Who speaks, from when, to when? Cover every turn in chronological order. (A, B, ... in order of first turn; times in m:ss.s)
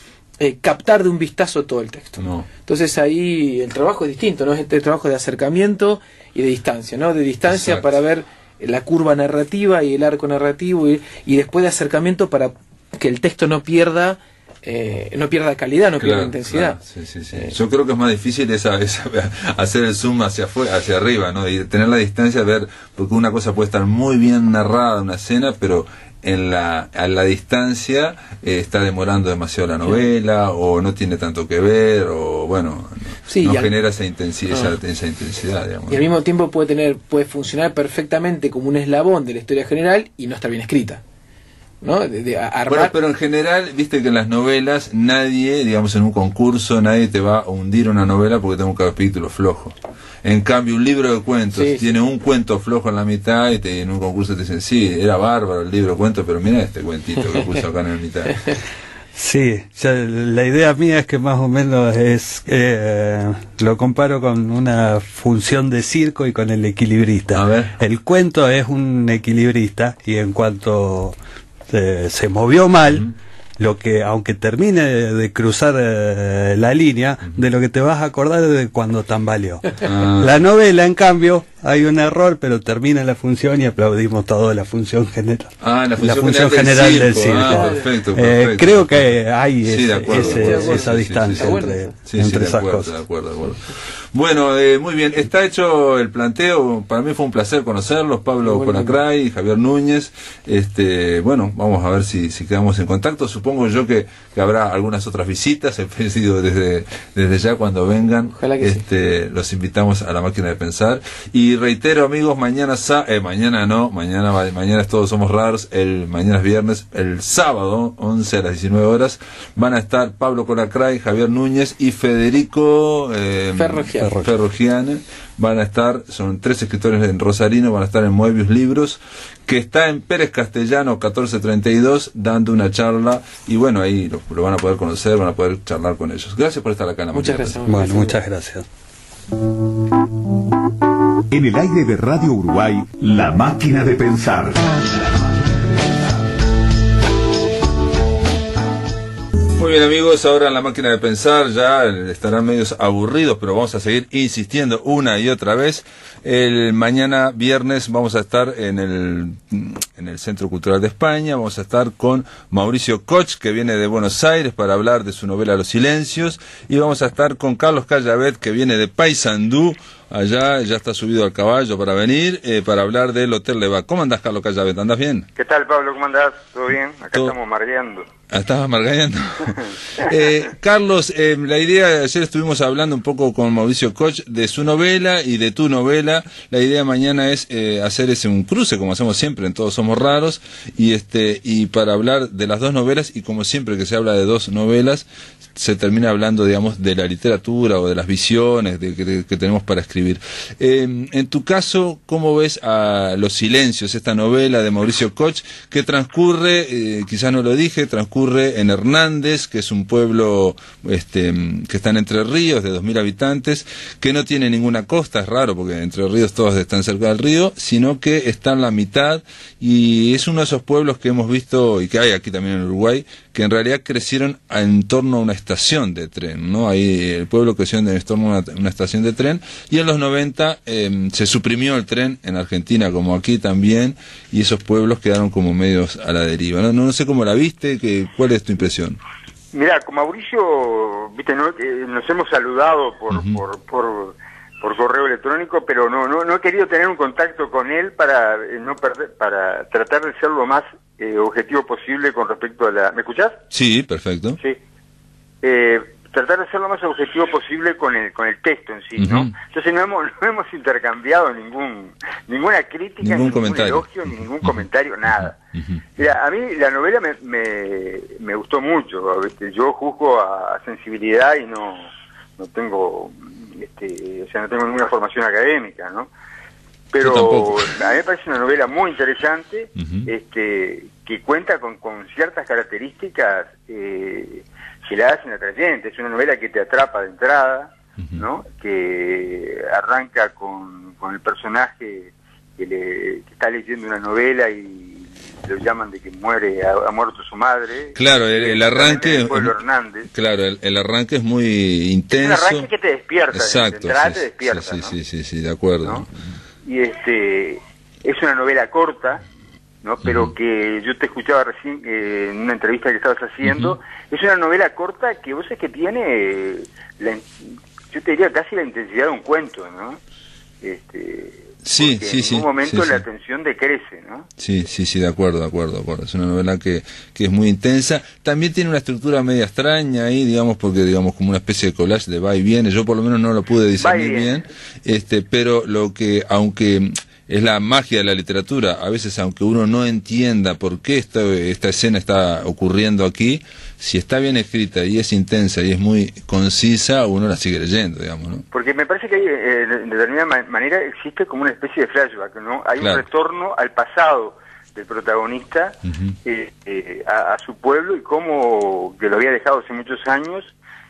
0:00.4-0:16.8 A
0:02.2-0:02.5 B
0:07.5-0:07.9 B
0:16.0-0:36.0 B
0:33.3-0:33.7 A
0:35.9-0:41.0 A
0:41.8-0:42.9 A
0:42.7-0:58.4 B
0:51.5-0:51.8 A
0:59.2-1:11.2 C
1:07.3-1:07.7 B
1:11.7-1:32.9 C
1:19.8-1:20.4 B
1:25.6-1:29.1 B
1:27.4-1:27.8 A
1:29.6-2:17.6 B
1:30.1-1:31.9 A
1:38.4-1:39.0 A
1:48.3-1:48.8 A
2:03.6-2:04.1 A
2:04.0-2:04.3 C
2:17.1-2:18.2 A
2:17.6-2:18.7 C
2:21.3-2:25.0 D
2:29.6-2:55.3 B
2:55.4-2:58.1 E
2:58.3-3:59.0 B
3:59.5-4:13.4 E
4:03.1-4:03.4 B
4:13.5-4:14.4 B
4:15.4-4:25.3 E
4:19.0-4:19.3 B
4:23.0-4:23.8 B
4:24.4-4:25.8 B
4:26.0-4:36.1 E
4:36.9-5:00.1 E
4:37.0-4:37.7 B
4:39.8-4:40.1 B
4:57.9-4:59.5 B
5:00.1-5:02.7 B
5:02.2-5:04.9 E
5:03.3-5:06.1 B
5:06.6-5:09.2 E
5:09.8-5:17.3 E
5:10.0-5:10.3 B
5:13.4-5:13.7 B
5:17.9-5:20.0 E
5:20.6-5:24.3 E
5:21.6-5:23.0 B
5:24.4-5:48.4 B
5:33.8-5:34.4 E
5:48.5-6:00.5 E
5:55.8-5:56.2 B